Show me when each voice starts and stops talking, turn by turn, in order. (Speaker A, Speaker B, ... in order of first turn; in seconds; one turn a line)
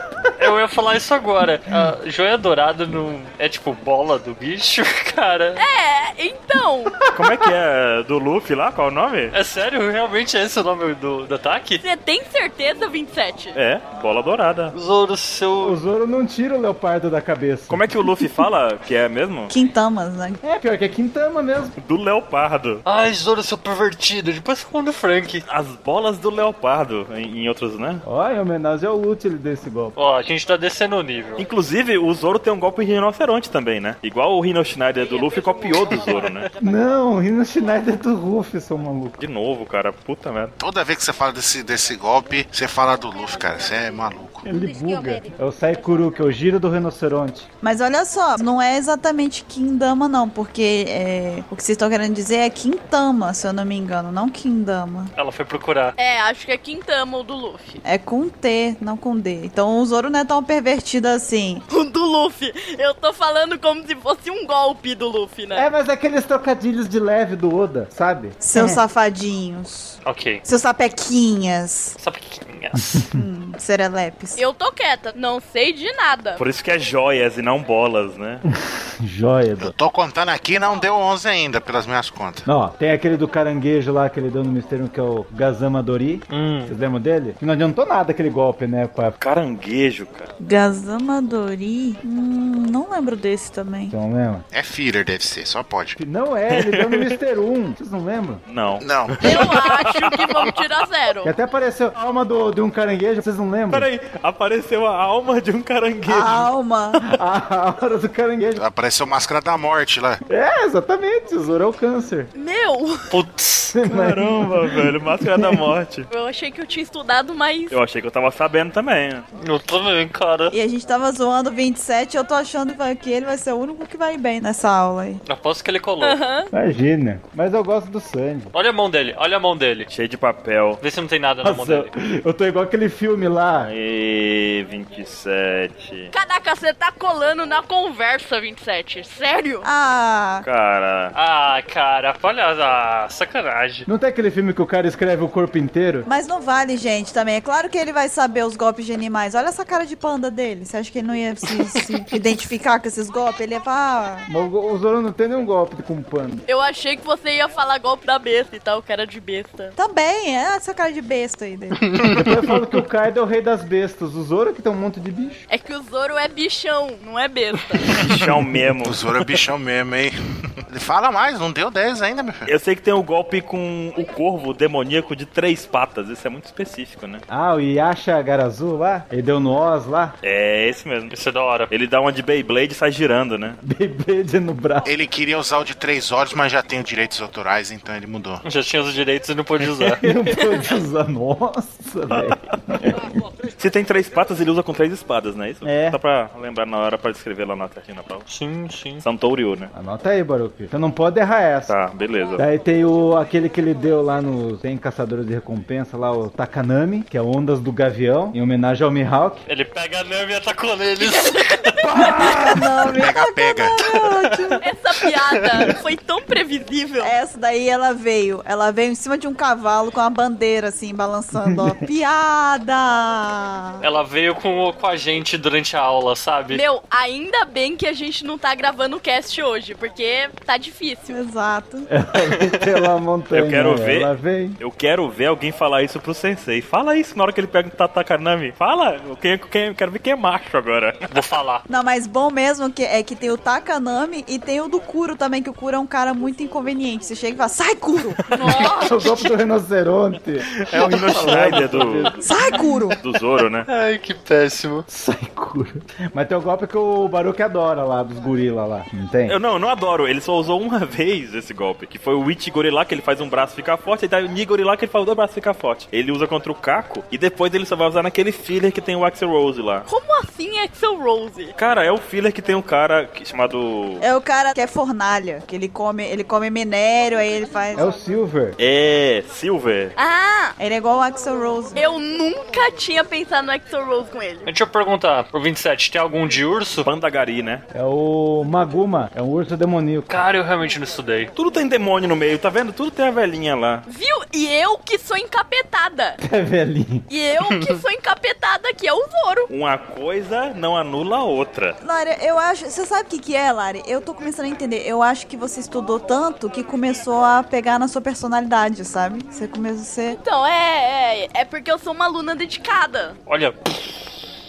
Speaker A: 0.4-5.6
Speaker B: 5.6-7.0
Speaker C: 7.1-9.3
Speaker A: 9.3-11.8
Speaker B: 11.8-13.6
Speaker C: 13.5-14.7
Speaker A: 14.7-15.8
Speaker D: 15.6-17.9
Speaker C: 17.7-19.5
Speaker E: 19.5-20.4
Speaker D: 20.4-21.7
Speaker C: 21.8-22.8
Speaker A: 22.9-25.4
Speaker C: 25.4-28.0
Speaker D: 28.0-29.9
Speaker A: 29.9-31.4
Speaker C: 31.4-36.5
Speaker A: 35.9-36.4
Speaker D: 36.6-39.2
Speaker C: 39.2-40.5
Speaker F: 40.6-44.5
Speaker D: 44.4-47.5
Speaker E: 47.6-55.1
Speaker A: 55.2-55.9
Speaker B: 56.0-57.8
Speaker E: 57.8-61.6
Speaker B: 61.7-65.7
Speaker D: 65.5-68.8
Speaker E: 68.4-72.0
Speaker A: 70.0-70.4
Speaker A: 72.0-73.1
Speaker D: 72.7-73.2
Speaker E: 73.1-74.4
Speaker B: 74.3-76.4
Speaker C: 76.4-78.4
Speaker D: 79.0-79.7
Speaker F: 79.6-82.5
Speaker D: 82.5-89.2
Speaker A: 86.3-86.7
Speaker C: 89.2-90.3
Speaker E: 90.4-93.9
Speaker D: 93.9-94.4
Speaker F: 94.5-96.0
Speaker D: 96.0-98.4
Speaker C: 96.5-97.1
Speaker C: 98.5-100.6
Speaker F: 98.8-99.3
Speaker B: 99.2-101.3
Speaker D: 101.2-103.9
Speaker C: 103.7-106.5
Speaker E: 106.1-107.1
Speaker D: 107.0-108.6
Speaker F: 108.5-110.2
Speaker D: 110.3-112.3
Speaker B: 112.3-113.1
Speaker A: 113.1-113.8
Speaker D: 113.7-115.7
Speaker C: 113.8-116.1
Speaker B: 116.1-117.8
Speaker C: 117.7-119.2
Speaker A: 119.3-120.5
Speaker E: 120.5-125.2
Speaker A: 125.2-126.2
Speaker B: 126.0-126.5
Speaker D: 126.5-128.5
Speaker A: 128.5-129.9
Speaker C: 129.9-130.8
Speaker A: 130.8-131.9
Speaker D: 131.4-133.7
Speaker C: 133.6-136.1
Speaker B: 136.1-139.7
Speaker E: 139.6-140.4
Speaker C: 140.4-141.1
Speaker A: 141.1-143.9
Speaker D: 143.9-146.1
Speaker E: 146.1-154.3
Speaker D: 154.3-156.4
Speaker B: 156.5-159.7
Speaker E: 159.8-161.8
Speaker A: 161.8-162.6
Speaker D: 162.1-165.4
Speaker B: 165.5-167.9
Speaker C: 168.0-169.0
Speaker F: 168.8-170.1
Speaker F: 170.7-172.5
Speaker C: 172.4-177.2
Speaker D: 177.3-180.2
Speaker C: 180.2-181.1
Speaker A: 181.1-181.7
Speaker C: 181.7-183.6
Speaker D: 183.6-184.9
Speaker F: 184.8-188.4
Speaker A: 188.4-190.1
Speaker D: 190.0-193.0
Speaker C: 193.5-198.3
Speaker D: 195.6-196.0
Speaker A: 198.3-199.0
Speaker C: 199.0-199.7
Speaker D: 199.7-201.7
Speaker C: 201.7-202.4
Speaker D: 202.4-209.4
Speaker A: 209.5-212.1
Speaker B: 211.0-211.3
Speaker D: 211.8-212.9
Speaker E: 211.9-214.6
Speaker F: 212.9-213.8
Speaker B: 214.6-217.1
Speaker E: 217.0-223.8
Speaker D: 221.3-221.8
Speaker A: 223.8-226.6
Speaker B: 226.5-231.2
Speaker E: 231.1-231.9
Speaker D: 231.9-234.6
Speaker A: 232.3-232.6
Speaker C: 233.3-241.1
Speaker A: 241.1-241.6
Speaker E: 241.7-248.2
Speaker B: 248.3-249.3
Speaker D: 248.5-252.6
Speaker C: 250.6-252.2
Speaker A: 251.3-251.6
Speaker E: 252.2-253.0
Speaker C: 253.0-253.7
Speaker A: 253.7-254.8
Speaker D: 254.9-259.4
Speaker C: 259.2-269.9
Speaker B: 269.9-271.5
Speaker C: 271.6-274.0
Speaker E: 274.0-277.9
Speaker D: 277.7-278.6
Speaker C: 278.6-279.9
Speaker B: 280.0-280.5
Speaker E: 280.6-281.8
Speaker B: 281.7-284.5
Speaker A: 284.4-286.9
Speaker C: 286.8-287.6
Speaker D: 287.7-290.2
Speaker A: 290.1-291.3
Speaker C: 291.4-293.9
Speaker B: 293.9-296.2
Speaker D: 296.2-297.1
Speaker B: 297.1-299.5
Speaker A: 297.5-297.8
Speaker C: 299.5-301.8
Speaker E: 301.8-310.2
Speaker B: 310.2-313.2
Speaker A: 313.3-314.2